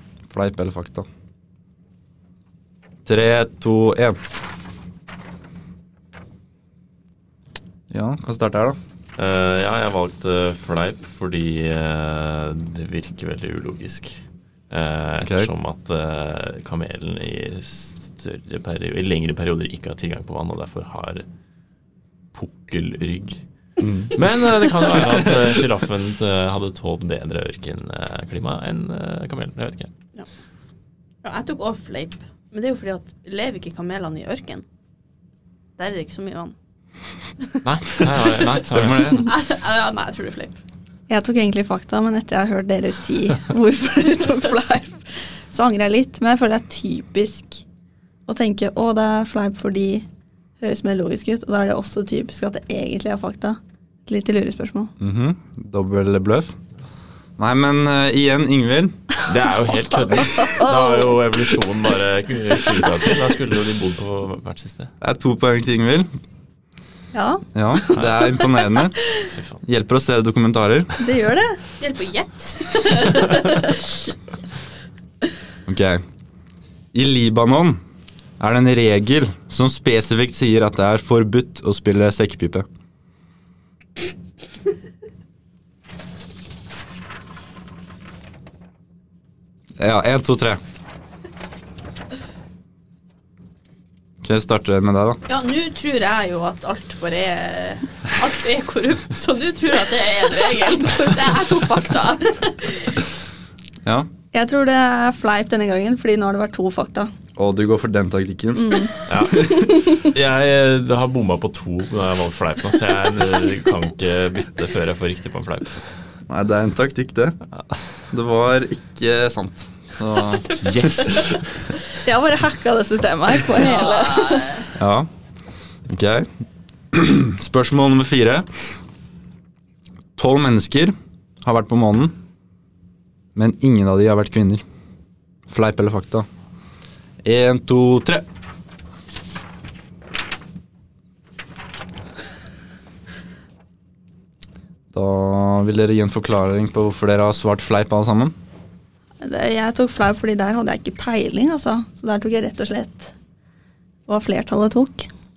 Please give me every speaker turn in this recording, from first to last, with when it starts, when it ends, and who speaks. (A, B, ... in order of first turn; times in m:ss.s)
0:00.3-0:01.1 A
0:03.1-0:04.2 A
0:07.9-0:08.8 A
0:09.2-0:21.3 B
0:15.2-0:15.5 A
0:22.3-0:23.4 B
0:23.8-0:24.2 A
0:24.1-0:29.9 B
0:31.2-0:34.6 C
0:35.8-0:36.6 C
0:37.6-0:39.2 B
0:38.6-0:39.3 A
0:39.1-0:40.6 C
0:41.1-0:47.6 D
0:48.3-0:50.1 D
0:50.6-0:54.9 D
0:55.0-0:56.5 A
0:57.4-0:59.0 A
0:59.3-1:04.9 B
1:00.4-1:01.2 D
1:05.0-1:06.1 A
1:07.1-1:07.9 D
1:07.5-1:09.0 A
1:07.9-1:08.2 B
1:09.3-1:09.6 B
1:09.6-1:10.9 A
1:11.0-1:11.6 D
1:11.8-1:13.8 C
1:15.7-1:16.0 A
1:16.9-1:17.8 A
1:18.4-1:22.6 A
1:29.8-1:30.6 A
1:34.2-1:35.2 A
1:35.3-1:43.0 C
1:44.3-1:47.1 D
1:47.4-1:49.3 A
1:48.6-1:50.0 D
1:49.1-1:55.9 B
1:56.3-1:57.4 A
1:58.1-2:00.6 A
2:00.6-2:01.4 B
2:02.0-2:04.7 D
2:03.6-2:04.7 C
2:04.8-2:05.1 A
2:05.9-2:06.3 A
2:06.9-2:08.8 A
2:10.2-2:12.2 A
2:13.4-2:14.6 A
2:15.5-2:16.3 A
2:17.2-2:18.2 A
2:24.9-2:28.3 A
2:29.2-2:33.1 D
2:34.1-2:35.1 D